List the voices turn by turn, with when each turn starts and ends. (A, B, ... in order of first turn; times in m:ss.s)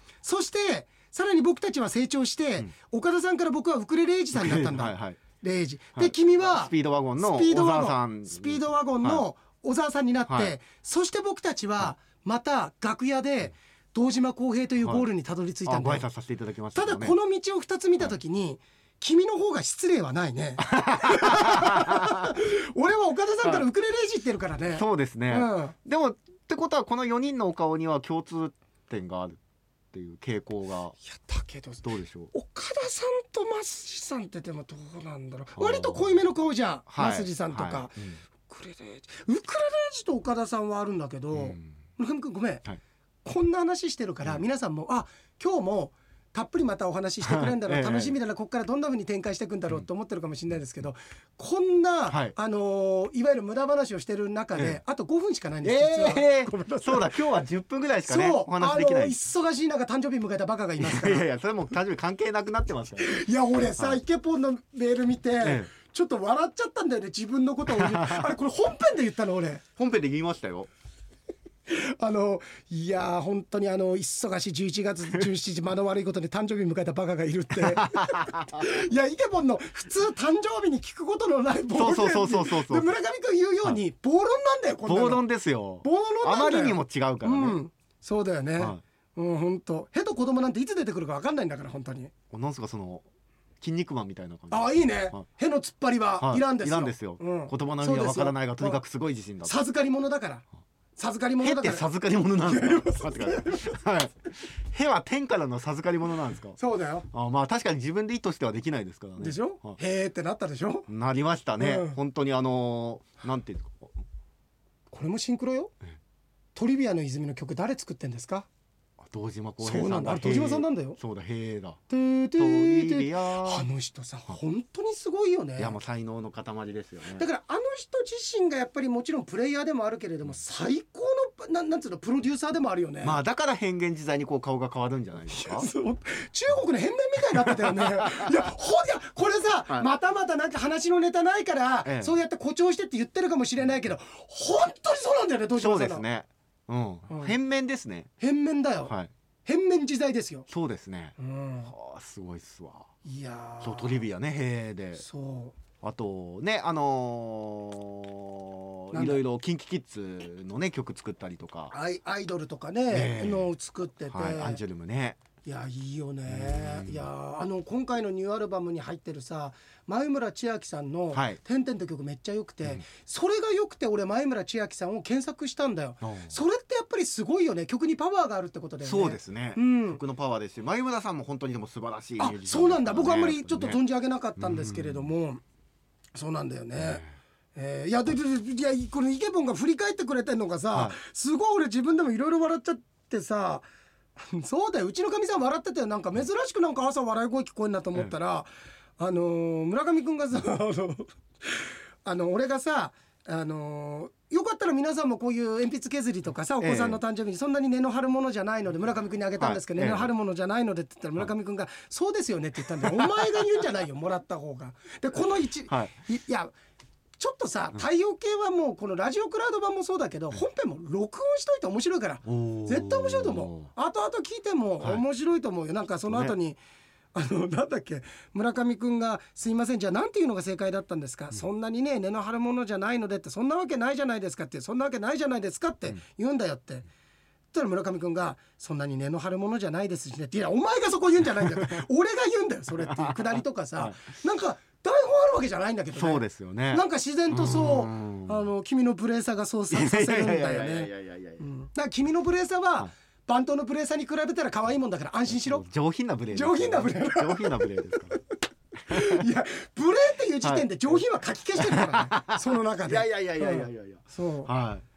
0:00.2-0:16.0 A
0:04.3-0:05.2 B
0:06.0-0:09.2 B
0:10.3-0:10.5 B
0:15.7-0:17.2 B
0:16.7-0:25.7 A
0:20.6-0:22.3 B
0:24.7-0:29.4 B
0:29.9-0:31.0 B
0:31.0-0:42.6 A
0:31.8-0:32.3 B
0:35.6-0:36.2 B
0:36.9-0:38.2 B
0:41.3-0:41.6 B
0:43.2-0:57.1 A
0:47.2-0:48.2 B
0:55.6-0:59.2 B
0:58.1-1:01.2 A
1:00.8-1:03.2 B
1:03.0-1:09.6 A
1:05.4-1:05.7 B
1:07.7-1:08.3 B
1:09.8-1:10.7 B
1:11.7-1:25.2 A
1:17.7-1:18.4 B
1:21.7-1:22.9 B
1:24.8-1:27.6 B
1:25.8-1:32.1 A
1:32.3-1:33.0 B
1:33.6-1:35.2 B
1:34.5-1:38.8 A
1:36.2-1:39.5 B
1:39.4-1:40.4 A
1:41.0-1:41.8 A
1:41.4-1:46.6 B
1:42.4-1:43.7 A
1:46.6-1:47.1 A
1:47.1-1:49.8 B
1:49.2-1:50.9 A
1:50.9-1:53.9 B
1:51.6-1:51.9 A
1:54.9-1:55.7 A
1:56.5-1:58.5 A
1:59.0-2:01.8 B
1:59.6-2:01.0 A
2:01.9-2:05.8 A
2:02.4-2:03.6 B
2:05.6-2:07.2 B
2:07.1-2:13.2 A
2:13.0-2:15.7 B
2:15.3-2:26.0 A
2:17.4-2:18.4 B
2:21.8-2:22.2 B
2:25.6-2:28.1 B
2:27.1-2:27.3 A
2:28.2-2:28.9 A
2:29.4-2:30.5 A
2:30.5-2:31.2 B
2:31.2-2:31.7 A
2:31.7-2:32.9 B
2:33.0-2:34.0 A
2:33.6-2:35.0 B
2:35.0-2:35.6 A
2:35.8-2:41.7 B
2:38.9-2:39.2 A
2:41.7-2:44.6 A
2:42.9-2:43.5 B
2:44.1-2:45.2 B
2:45.4-3:00.0 A
2:46.3-2:47.0 B
2:51.1-2:51.4 B
2:56.0-2:56.3 B
2:58.8-3:03.8 B
3:02.2-3:05.4 A
3:04.4-3:05.1 B
3:06.1-3:07.0 A
3:06.8-3:07.0 B
3:07.5-3:13.6 A
3:14.2-3:36.5 A
3:26.6-3:27.0 B
3:29.4-3:30.1 B
3:32.9-3:33.3 B
3:37.2-3:46.6 A
3:42.2-3:43.7 B
3:46.1-3:46.3 B
3:47.1-3:56.8 A
3:57.5-4:15.6 A
4:02.8-4:04.0 B
4:05.9-4:08.4 B
4:09.7-4:11.4 B
4:15.3-4:18.2 B
4:16.3-4:18.2 A
4:18.9-4:24.5 A
4:18.9-4:19.2 B
4:20.4-4:20.7 B
4:21.6-4:24.8 B